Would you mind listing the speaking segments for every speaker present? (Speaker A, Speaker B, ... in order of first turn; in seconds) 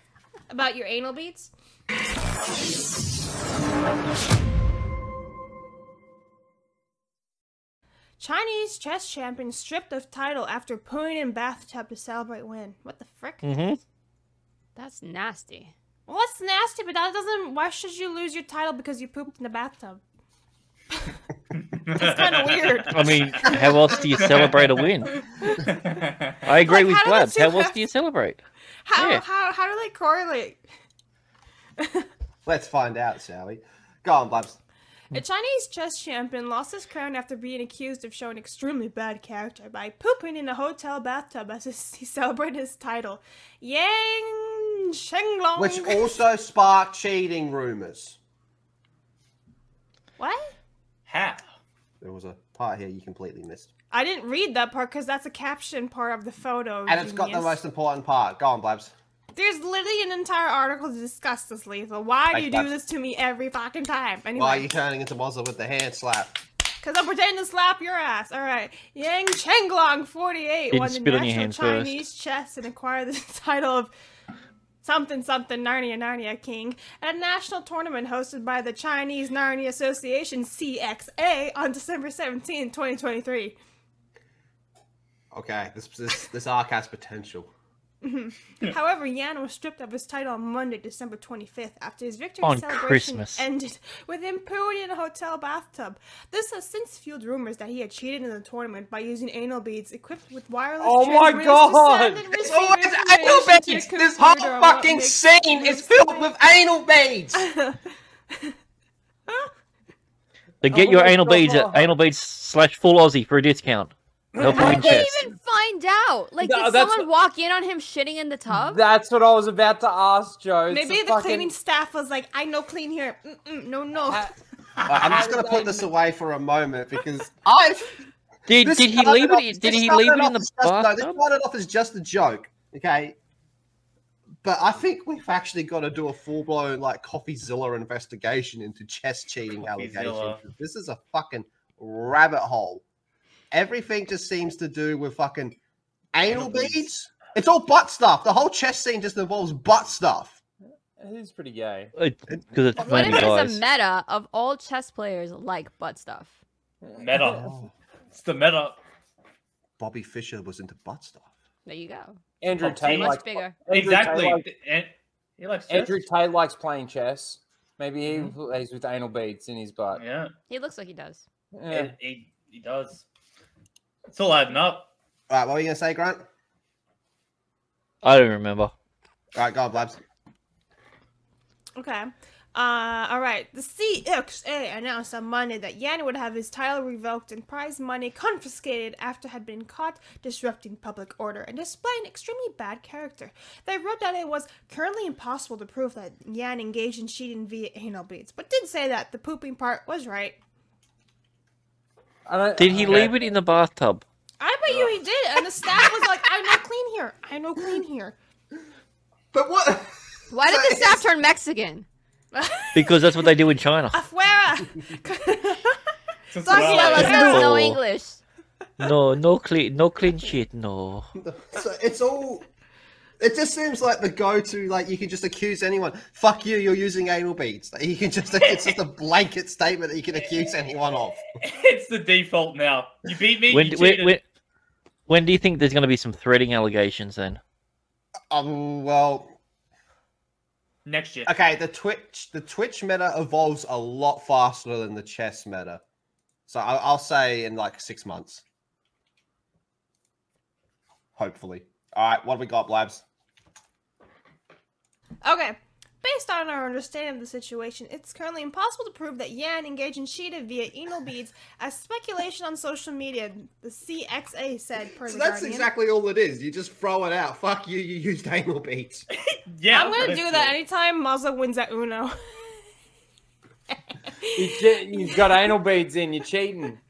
Speaker A: 0.5-1.5, 8.2-13.4, 16.1-20.0, 21.9-24.0, 26.6-27.8, 28.9-30.6, 31.8-32.0, 35.1-46.1, 50.2-50.5, 53.9-57.6, 59.3-64.7, 66.8-73.9, 74.8-83.5, 88.0-106.3, 107.3-108.5, 120.7-124.3, 181.8-200.4, 204.4-208.1, 212.3-213.0, 213.9-215.8, 216.4-217.5, 255.2-265.7, 269.7-272.6, 273.7-275.4
Speaker B: 13.4-13.8, 22.9-25.1, 26.4-28.4, 28.9-29.2, 70.7-72.0, 92.4-93.4, 110.6-115.2, 128.5-131.2, 152.0-153.6, 178.0-178.7, 202.6-204.0, 212.7-214.0, 216.9-217.8, 218.8-221.1, 233.5-234.2, 235.1-237.4
Speaker C: 14.8-15.7, 114.6-118.8, 152.8-156.4, 161.6-163.6, 170.5-171.2, 210.3-211.9, 216.6-218.2
Speaker D: 21.6-22.9, 24.2-24.7, 25.7-26.5, 51.1-51.4, 139.6-140.4, 146.3-146.7, 157.0-157.4, 158.1-158.8, 163.7-166.0, 168.1-168.3, 169.9-170.3, 171.7-173.0, 174.1-174.9, 216.3-217.2, 231.4-234.2, 240.8-241.3, 269.5-270.6
Speaker E: 32.4-34.6, 45.5-48.2, 52.0-53.7, 56.9-58.9, 62.3-62.7, 64.3-66.4, 85.3-87.5, 102.4-107.5, 124.8-128.0, 128.6-133.2, 134.4-142.8, 143.5-145.6, 146.1-150.4, 157.2-157.7, 159.8-161.3, 162.8-163.1, 175.3-176.2, 179.3-180.0, 209.3-211.1, 221.2-222.4, 223.2-231.2, 238.3-239.3, 241.2-245.8, 246.5-248.4, 251.2-253.0, 265.1-269.1
Speaker F: 100.8-102.3, 110.7-111.9, 114.3-115.0, 116.4-117.1, 118.5-121.5, 124.9-125.9, 151.0-151.9, 156.8-157.5, 162.4-164.5, 165.7-170.0, 171.5-171.9, 202.2-203.2, 274.4-276.8